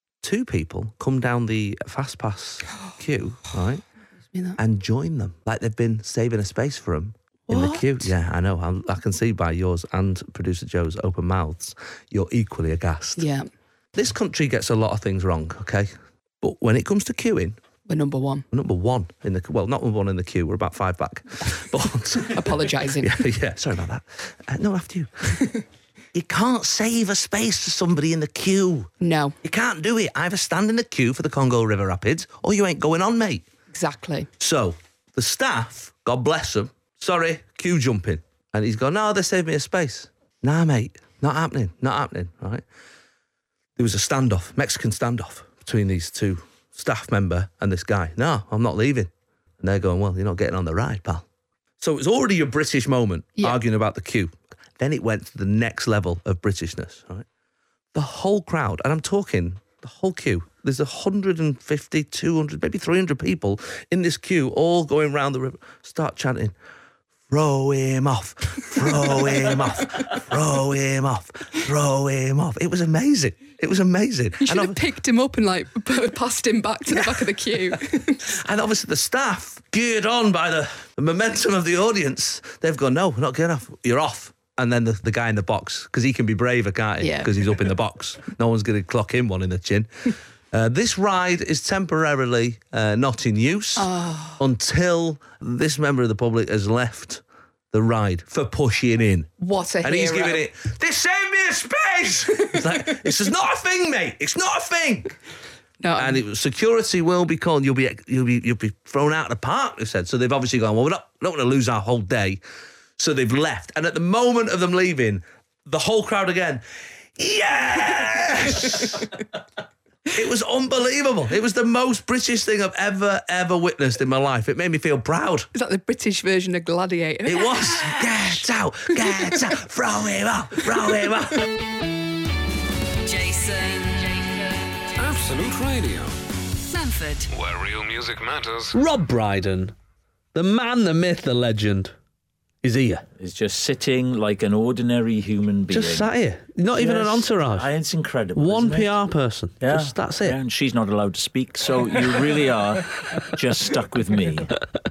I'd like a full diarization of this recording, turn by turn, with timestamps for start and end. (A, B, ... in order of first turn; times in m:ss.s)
0:00.2-0:03.8 A
0:04.6-0:13.3 A
0:07.5-0:08.0 B
0:13.2-0:13.5 B
0:13.9-0:17.6 A
0:17.9-0:18.4 B
0:18.5-0:25.5 A
0:22.3-0:23.2 B
0:26.1-0:33.4 A
0:29.0-0:29.3 B
0:33.7-0:34.3 B
0:34.4-0:42.6 A
0:43.8-0:51.2 A
0:51.8-0:57.2 A
0:57.9-1:06.5 A
1:07.3-1:14.8 A
1:14.4-1:18.2 B
1:16.9-1:45.1 A
1:27.0-1:27.3 B
1:33.8-1:34.4 B
1:39.4-1:40.4 B
1:45.8-1:46.2 B
1:46.0-1:52.4 A
1:53.0-1:56.6 A
1:57.2-1:59.1 A
2:00.1-2:05.5 A
2:05.5-2:08.2 B
2:07.2-2:11.5 A
2:09.0-2:09.4 B
2:13.0-2:14.6 C
2:15.0-2:16.1 D
2:16.7-2:17.3 C
2:17.3-2:18.7 D
2:18.7-2:19.7 A
2:20.3-2:21.9 A
2:22.6-2:23.0 A
2:23.2-2:26.1 E
2:25.7-2:27.7 A
2:26.7-2:28.9 E
2:28.3-2:30.4 A
2:29.6-2:34.5 E